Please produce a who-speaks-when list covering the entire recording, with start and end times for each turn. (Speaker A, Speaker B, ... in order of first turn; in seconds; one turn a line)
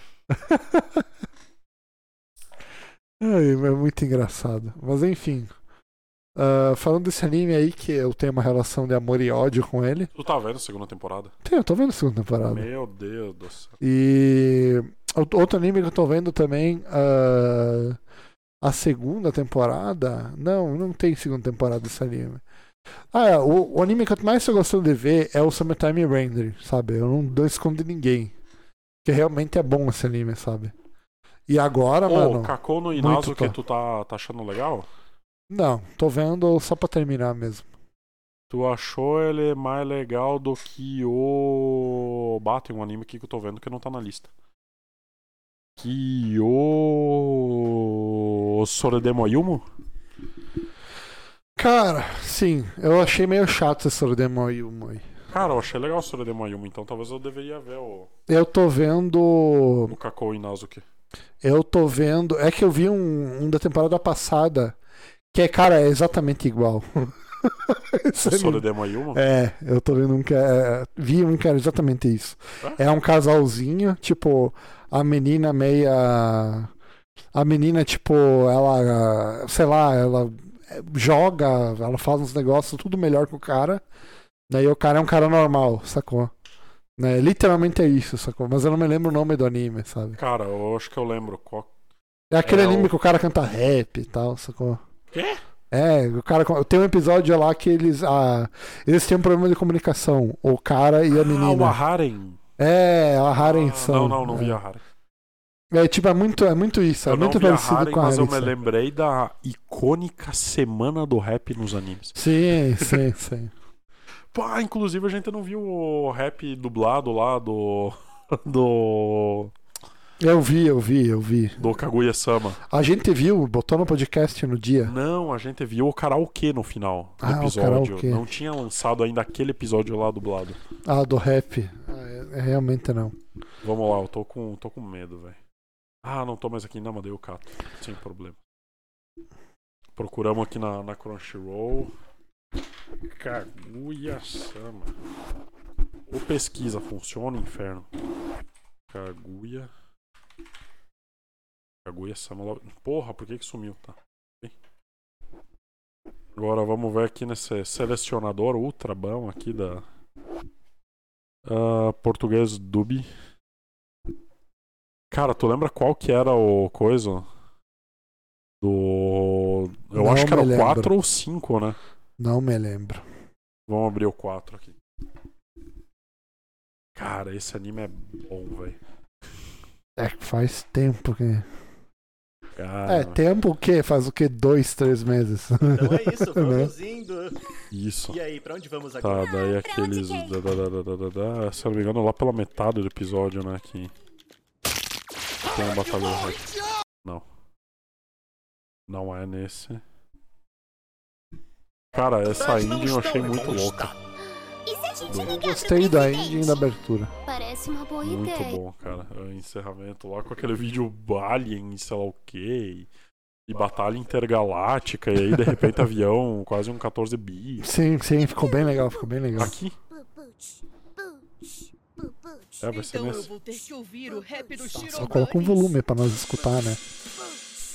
Speaker A: 0.3-1.0
Speaker A: 3.2-5.5
Speaker A: 6.3-10.1
Speaker B: 10.1-11.3
Speaker A: 11.4-12.7
Speaker B: 12.4-13.8
Speaker A: 13.8-18.0
Speaker A: 18.6-22.4
Speaker A: 23.1-28.3
Speaker A: 29.0-30.7
Speaker A: 31.5-33.5
Speaker B: 32.0-34.9
Speaker A: 35.5-37.7
Speaker B: 38.5-44.3
Speaker B: 45.8-49.6
Speaker A: 51.5-55.1
Speaker B: 55.3-58.1
Speaker A: 58.3-60.0
Speaker B: 59.9-60.8
Speaker A: 61.4-64.8
Speaker A: 65.3-76.7
Speaker B: 68.2-69.2
Speaker A: 77.3-83.8
Speaker A: 84.5-86.3
Speaker A: 87.0-90.2
Speaker B: 90.2-91.7
Speaker A: 92.3-94.8
Speaker B: 92.4-92.9
Speaker B: 95.1-95.4
Speaker A: 95.7-101.8
Speaker B: 101.1-102.4
Speaker A: 102.6-104.6
Speaker B: 103.4-104.8
Speaker A: 105.7-108.5
Speaker B: 107.0-112.2
Speaker A: 112.2-113.5
Speaker B: 114.3-119.5
Speaker A: 120.2-121.6
Speaker B: 121.6-122.6
Speaker A: 122.7-124.9
Speaker B: 124.8-130.6
Speaker A: 127.2-128.2
Speaker A: 130.8-133.2
Speaker B: 133.6-135.4
Speaker B: 136.0-138.4
Speaker B: 139.9-141.9
Speaker B: 143.1-144.9
Speaker B: 146.1-147.9
Speaker B: 148.9-149.7
Speaker B: 151.8-154.5
Speaker B: 156.3-159.8
Speaker B: 161.4-163.1
Speaker B: 165.1-167.2
Speaker B: 168.6-171.8
Speaker A: 169.9-170.9
Speaker A: 172.2-173.0
Speaker B: 173.7-174.8
Speaker B: 176.9-178.8
Speaker A: 180.0-181.5
Speaker B: 182.6-183.2
Speaker A: 182.8-186.7
Speaker C: 185.6-187.4
Speaker B: 187.7-188.2
Speaker C: 188.1-189.4
Speaker B: 189.0-193.9
Speaker D: 189.3-190.3
Speaker B: 195.4-196.5
Speaker B: 198.9-199.8
Speaker B: 201.9-203.9
Speaker C: 202.3-203.9
Speaker D: 204.7-206.7
Speaker B: 205.1-205.4
Speaker A: 205.2-207.1
Speaker D: 207.2-208.6
Speaker B: 208.0-212.9
Speaker B: 213.5-217.7
Speaker A: 215.3-215.8
Speaker A: 217.6-219.6
Speaker B: 219.4-219.8
Speaker D: 220.0-220.6
Speaker B: 222.6-223.3
Speaker E: 222.7-225.8
Speaker A: 224.8-226.8